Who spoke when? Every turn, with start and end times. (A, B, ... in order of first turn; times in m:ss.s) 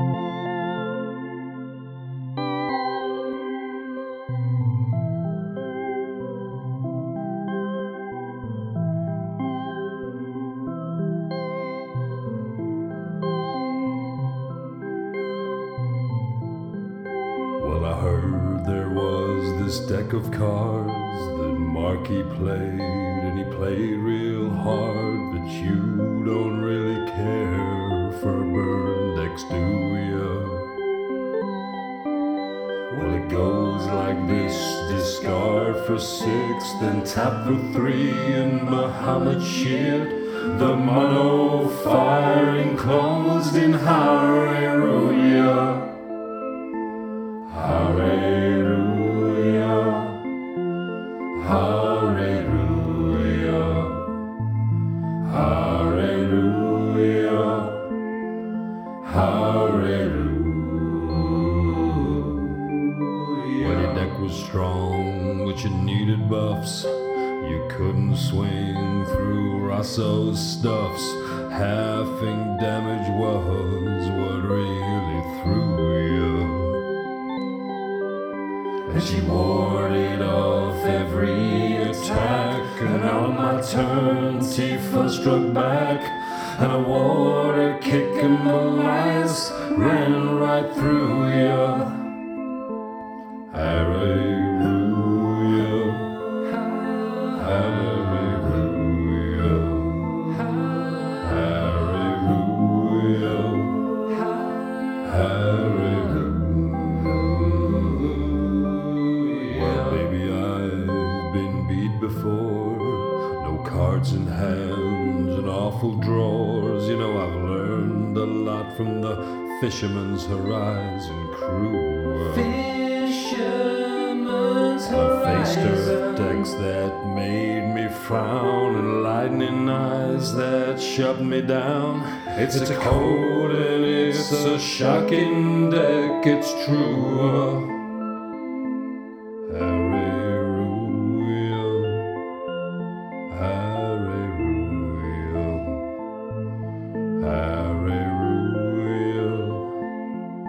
0:17.6-0:30.7 A
0:32.9-0:46.0 A
0:47.5-0:50.2 A
0:51.3-0:54.1 A
0:55.2-0:57.8 A
0:59.0-1:02.6 A
1:03.5-1:16.8 A
1:18.9-1:32.1 A
1:33.5-1:44.0 A
1:45.0-1:48.5 A
1:49.3-2:17.8 A
2:19.5-2:22.1 A
2:23.3-2:25.8 A
2:27.2-2:29.7 A